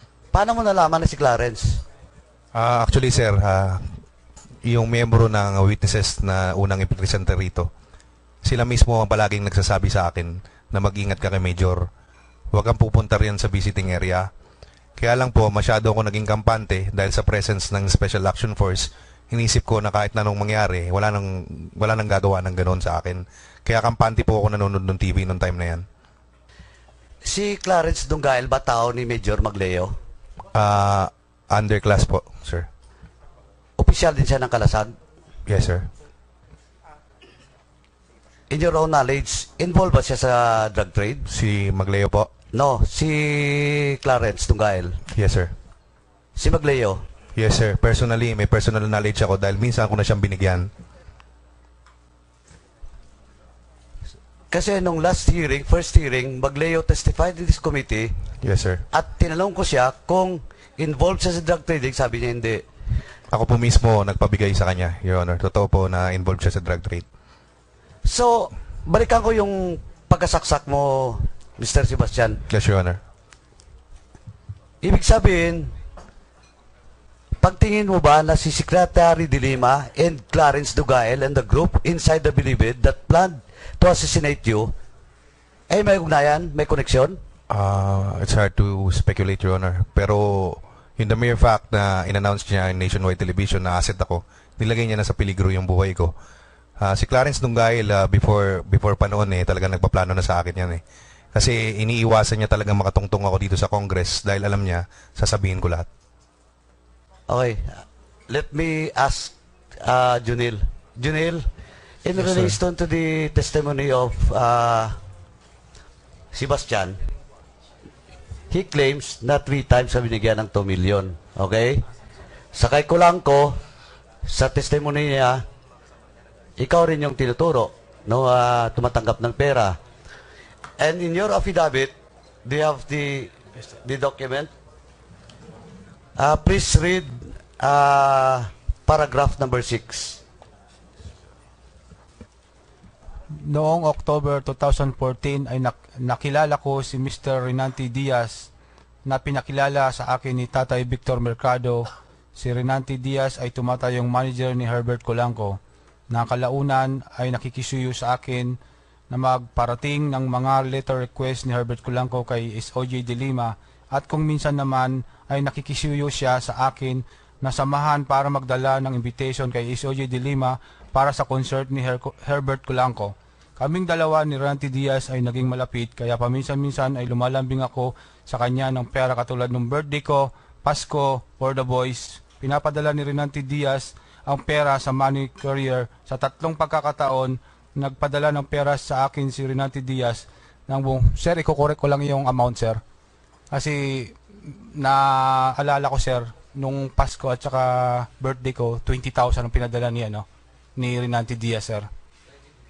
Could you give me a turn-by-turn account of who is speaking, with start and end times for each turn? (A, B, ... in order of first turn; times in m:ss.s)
0:00.3-0:01.8 A
0:02.6-0:04.0 B
0:04.6-0:07.7 B
0:08.4-0:11.9 B
0:12.5-0:14.3 B
0:15.0-0:25.8 B
0:27.2-0:30.0 A
0:30.6-0:32.7 B
0:33.8-0:35.0 A
0:35.5-0:35.9 B
0:38.5-0:41.3 A
0:41.3-0:42.3 B
0:42.5-0:45.0 A
0:45.2-0:45.5 B
0:46.4-0:47.0 A
0:47.4-0:50.7 B
0:54.5-0:58.1 A
0:58.4-0:58.8 B
0:58.9-1:02.7 A
1:03.3-1:07.0 B
1:08.0-1:12.4 A
1:12.5-1:13.0 B
1:14.8-1:15.8 A
1:17.4-1:24.7 A
1:25.7-1:27.2 A
1:27.5-1:36.1 B
1:36.8-1:40.8 B
1:41.4-1:45.9 B
1:47.3-1:51.5 A
1:52.0-1:55.0 A
1:52.2-1:52.6 B
1:56.3-1:57.0 A
1:58.5-2:01.8 A
2:02.6-2:03.6 A
2:04.2-2:05.4 A
2:06.6-2:09.8 A
2:10.8-2:14.5 A
2:16.2-2:20.2 A
2:23.3-2:28.5 C
2:29.1-2:35.6 C
2:36.1-2:38.6 C
2:39.1-3:12.8 C
3:13.5-3:20.3 C
3:20.8-3:21.9 C